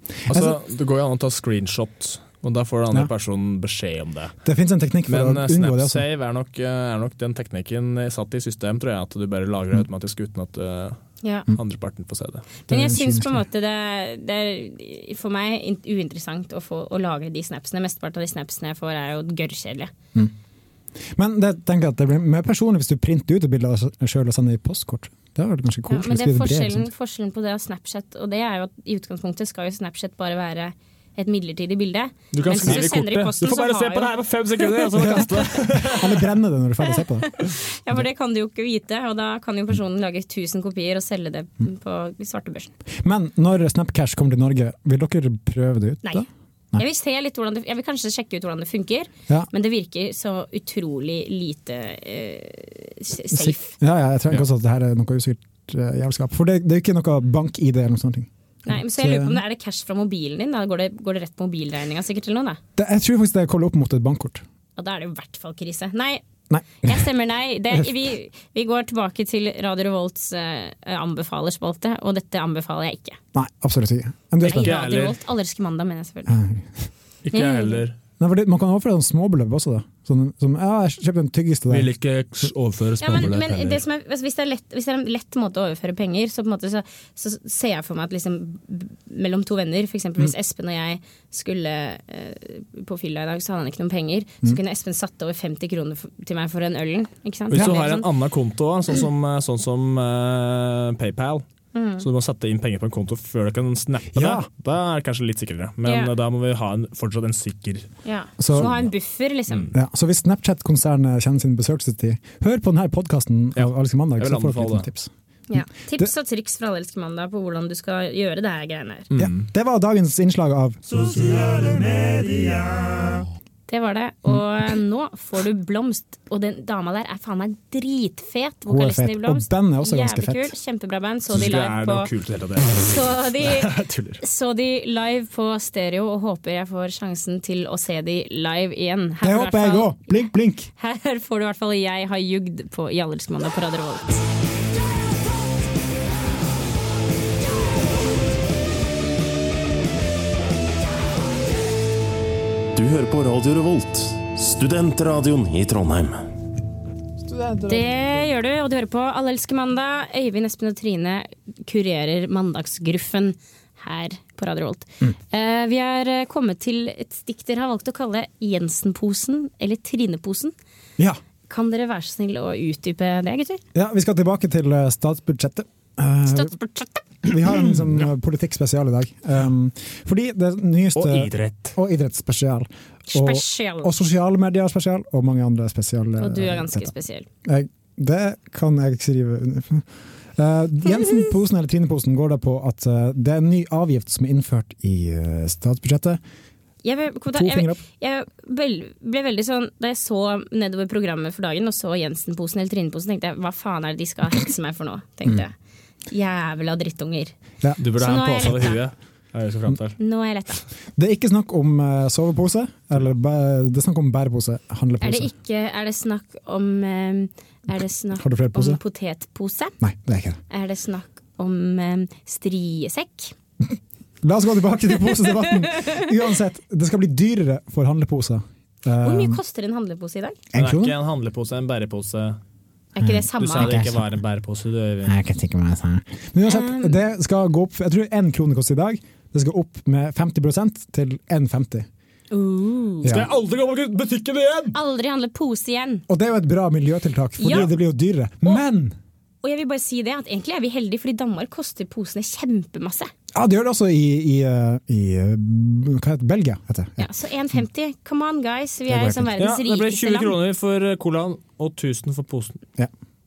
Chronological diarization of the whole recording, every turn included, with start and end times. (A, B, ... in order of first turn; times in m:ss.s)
0:00.3-0:04.3 A
0:00.3-0:00.6 B
0:04.4-0:06.0 B
0:05.1-0:11.0 A
0:11.2-0:11.5 C
0:11.5-0:12.4 A
0:12.7-0:19.9 C
0:12.7-0:13.4 B
0:21.1-0:26.9 B
0:25.9-0:34.1 C
0:32.3-0:36.3 A
0:34.9-0:38.0 B
0:36.8-0:42.7 C
0:43.0-0:46.8 B
0:46.8-0:53.7 C
0:53.3-0:59.4 B
0:58.6-1:02.6 C
1:02.8-1:04.4 B
1:04.8-1:06.2 C
1:06.5-1:07.0 B
1:06.8-1:13.2 C
1:13.3-1:14.8 B
1:14.4-1:16.3 C
1:14.4-1:15.2 A
1:16.3-1:16.8 B
1:17.2-1:17.9 A
1:17.3-1:17.8 C
1:18.2-1:21.9 B
1:21.7-1:23.8 A
1:23.0-1:38.1 C
1:37.5-1:41.4 A
1:41.7-1:42.0 C
1:42.0-1:47.9 A
1:44.1-1:44.5 B
1:45.8-1:46.1 C
1:48.0-1:49.7 C
1:48.4-1:48.9 B
1:49.7-1:55.1 B
1:53.6-1:54.9 A
1:55.5-1:59.1 C
1:59.1-1:59.4 A
1:59.2-2:00.8 B
2:03.7-2:12.1 C
2:08.7-2:10.5 B
2:11.3-2:14.2 A
2:12.8-2:24.2 C
2:19.2-2:20.7 B
2:32.7-2:36.2 D
2:37.2-2:38.1 B
2:37.7-2:50.5 C
2:51.5-2:53.6 C
2:53.7-2:56.5 B
2:56.3-2:57.4 C
2:57.2-3:06.9 B
3:00.9-3:01.7 A
3:03.1-3:03.9 C
3:06.2-3:07.3 C
3:07.4-3:16.2 B
3:10.9-3:11.2 C
3:16.8-3:25.5 C
3:17.3-3:17.8 B
3:26.1-3:27.4 C
3:27.8-3:30.0 A
3:27.9-3:28.8 C
3:30.0-3:30.6 C
3:31.0-3:35.3 B
3:35.0-3:39.7 C
3:38.2-3:38.8 B
3:39.8-3:40.4 B
3:40.5-3:43.3 C
3:44.2-3:49.4 B
3:49.0-3:50.4 C
3:50.5-3:50.9 B
3:50.5-3:52.4 A
3:53.0-3:53.9 C
3:53.0-3:54.0 B
3:53.4-3:55.1 A
3:55.0-4:01.9 B
3:56.4-3:57.0 C
4:02.3-4:03.1 C
4:03.0-4:03.3 B
4:03.1-4:04.8 A
4:04.7-4:06.0 C
4:06.1-4:09.0 B
4:07.4-4:07.7 C
4:09.4-4:13.1 C
4:13.3-4:17.1 B
4:17.0-4:20.3 C
4:18.9-4:19.3 B
4:19.4-4:22.6 A